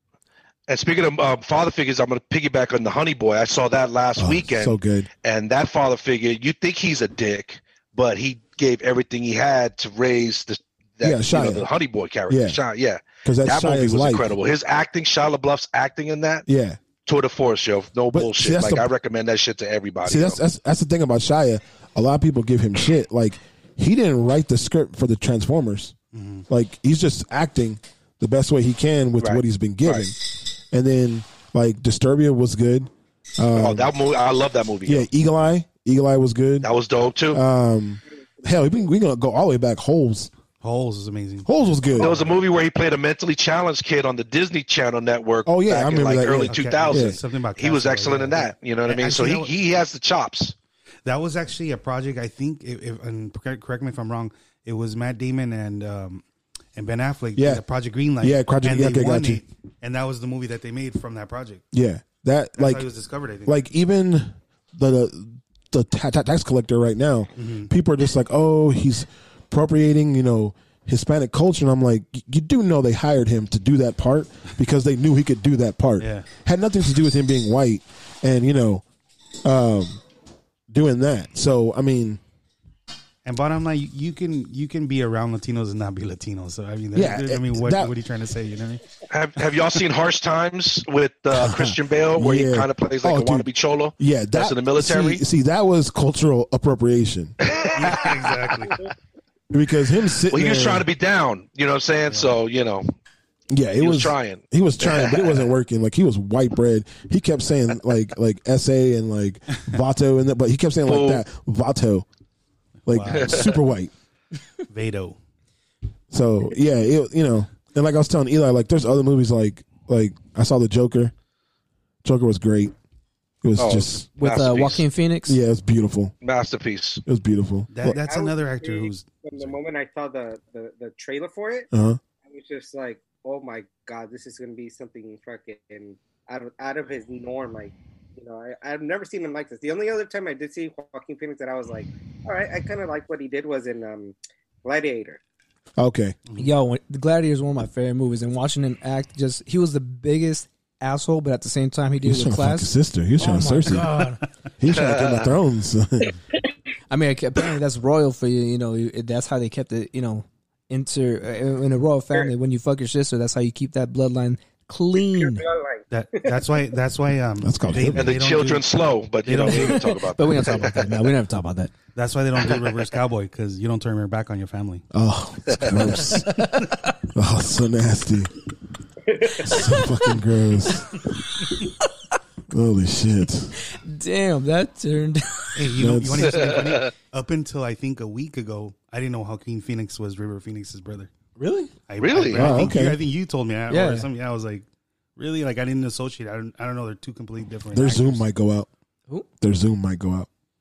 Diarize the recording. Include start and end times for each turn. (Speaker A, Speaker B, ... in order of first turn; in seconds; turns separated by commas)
Speaker A: 0.7-16.4, Speaker B: 4.2-5.1, Speaker B: 11.0-11.7, Speaker B: 12.3-12.6, Speaker B: 13.2-14.3, Speaker B: 16.4-16.8, Speaker A: 17.1-20.4, Speaker B: 18.1-18.9, Speaker B: 20.0-25.9, Speaker C: 26.1-26.4, Speaker B: 26.5-33.9, Speaker A: 29.2-30.1, Speaker A: 33.5-35.1, Speaker B: 34.9-36.7, Speaker A: 36.6-37.4, Speaker B: 37.3-40.3, Speaker C: 40.6-42.4, Speaker B: 41.5-42.1, Speaker A: 42.0-50.5, Speaker B: 45.5-47.2, Speaker C: 46.4-49.5, Speaker C: 51.0-56.2, Speaker C: 56.7-61.6, Speaker B: 57.4-57.6, Speaker B: 58.2-59.4, Speaker B: 61.7-62.9, Speaker C: 62.6-63.6, Speaker B: 63.5-78.8, Speaker C: 67.4-67.7, Speaker C: 76.0-76.3, Speaker B: 79.4-80.0, Speaker B: 80.7-82.2, Speaker C: 83.2-88.8, Speaker B: 86.9-87.9, Speaker A: 89.1-95.2, Speaker B: 91.3-97.3, Speaker A: 97.4-98.4, Speaker C: 97.7-98.9, Speaker B: 99.5-100.9, Speaker A: 100.3-102.9, Speaker B: 103.5-112.0, Speaker A: 103.8-105.5, Speaker A: 110.8-111.2, Speaker C: 112.9-113.5, Speaker B: 112.9-113.9, Speaker A: 113.1-113.5, Speaker C: 114.7-115.2, Speaker B: 116.1-121.1, Speaker B: 122.0-122.7, Speaker B: 123.4-124.1, Speaker A: 123.6-124.8, Speaker D: 124.2-125.3, Speaker B: 125.3-126.1, Speaker A: 126.2-127.0, Speaker B: 127.0-128.0, Speaker C: 127.7-129.5, Speaker E: 127.9-131.7, Speaker B: 131.7-132.0, Speaker E: 132.2-145.2, Speaker B: 145.8-146.2, Speaker D: 146.3-154.2, Speaker B: 152.0-153.9, Speaker C: 153.7-154.2, Speaker B: 154.6-156.2, Speaker A: 154.7-155.3, Speaker D: 156.9-165.4, Speaker E: 165.1-166.5, Speaker C: 165.9-168.7, Speaker B: 167.4-168.2, Speaker A: 167.9-170.8, Speaker C: 169.2-169.9, Speaker D: 169.4-171.7, Speaker C: 171.9-174.8, Speaker B: 174.9-176.3, Speaker D: 176.1-176.9, Speaker B: 177.1-178.3, Speaker B: 179.4-181.0, Speaker D: 179.5-179.8, Speaker B: 182.5-183.5, Speaker D: 183.7-185.6, Speaker C: 185.6-191.1, Speaker B: 185.7-186.4, Speaker A: 186.3-186.9, Speaker B: 191.4-191.7, Speaker D: 191.4-191.7, Speaker C: 191.9-194.6, Speaker A: 192.0-192.7, Speaker B: 192.3-193.0, Speaker D: 193.7-194.1, Speaker C: 195.2-198.2, Speaker B: 197.7-198.7, Speaker B: 199.4-200.3